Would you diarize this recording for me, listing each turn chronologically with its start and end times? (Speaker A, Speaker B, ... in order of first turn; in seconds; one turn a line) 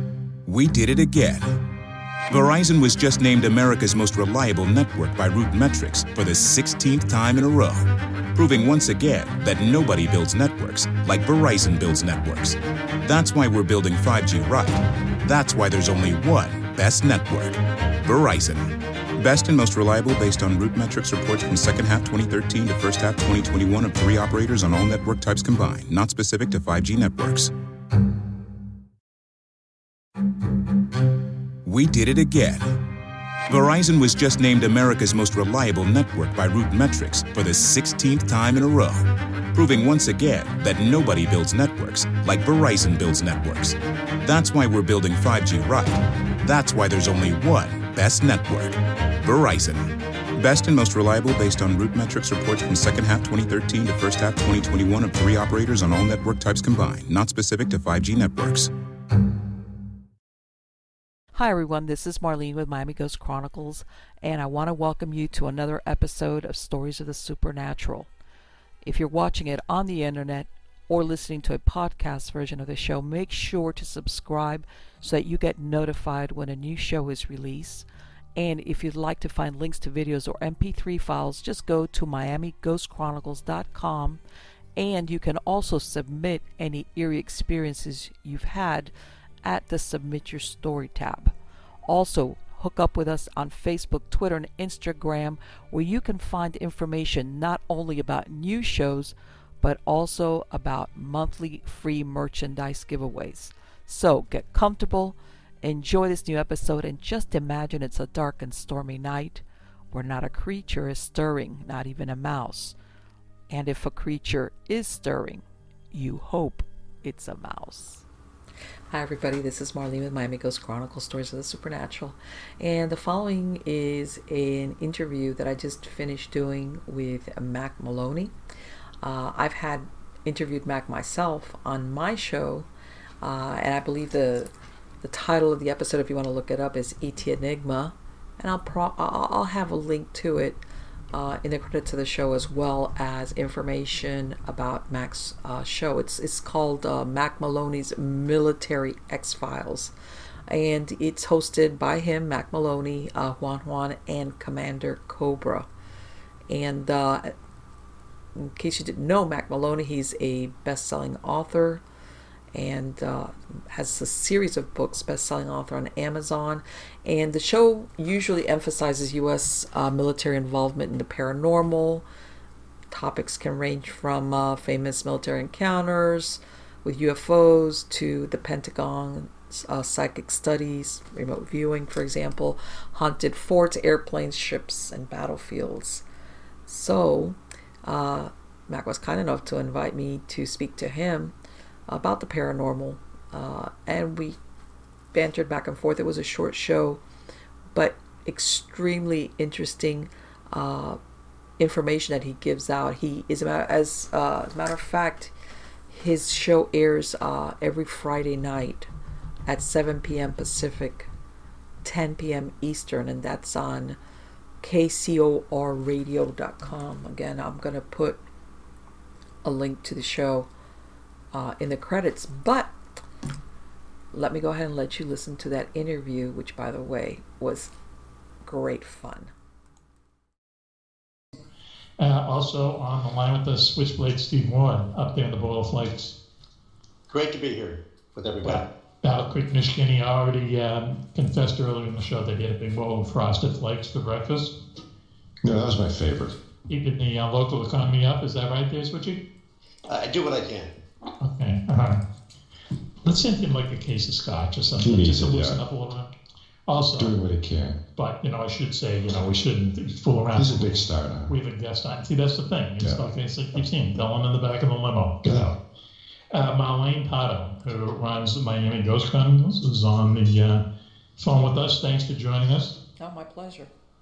Speaker A: 0.5-1.6
Speaker A: 2.3-27.5
Speaker A: 31.6-32.8
Speaker A: 33.5-58.7
Speaker B: 61.4-68.1
Speaker B: 68.8-84.2
Speaker B: 84.8-88.9
Speaker B: 89.4-91.3
Speaker B: 91.9-112.8
Speaker B: 113.5-118.0
Speaker B: 118.9-128.3
Speaker B: 129.0-132.7
Speaker B: 133.2-149.9
Speaker B: 150.5-155.7
Speaker B: 156.5-157.3
Speaker B: 158.3-161.8
Speaker B: 162.5-172.1
Speaker B: 172.9-186.1
Speaker B: 186.7-191.3
Speaker B: 191.9-194.4
Speaker B: 195.1-197.0
Speaker B: 197.7-201.0
Speaker B: 201.6-205.3
Speaker B: 205.9-208.9
Speaker B: 209.5-211.1
Speaker B: 211.8-214.0
Speaker B: 214.6-218.2
Speaker B: 219.4-220.5
Speaker B: 221.3-222.7
Speaker B: 224.1-227.7
Speaker B: 228.4-229.3
Speaker C: 232.0-236.2
Speaker D: 237.1-238.7
Speaker C: 238.4-244.5
Speaker E: 245.4-246.4
Speaker C: 246.7-249.2
Speaker D: 249.9-250.7
Speaker C: 251.2-252.0
Speaker C: 253.0-256.1
Speaker E: 254.8-255.6
Speaker C: 256.7-257.1
Speaker E: 257.0-257.8
Speaker C: 258.0-265.6
Speaker E: 260.4-261.3
Speaker E: 265.2-265.5
Speaker C: 266.3-270.6
Speaker C: 271.2-272.8
Speaker B: 273.0-273.7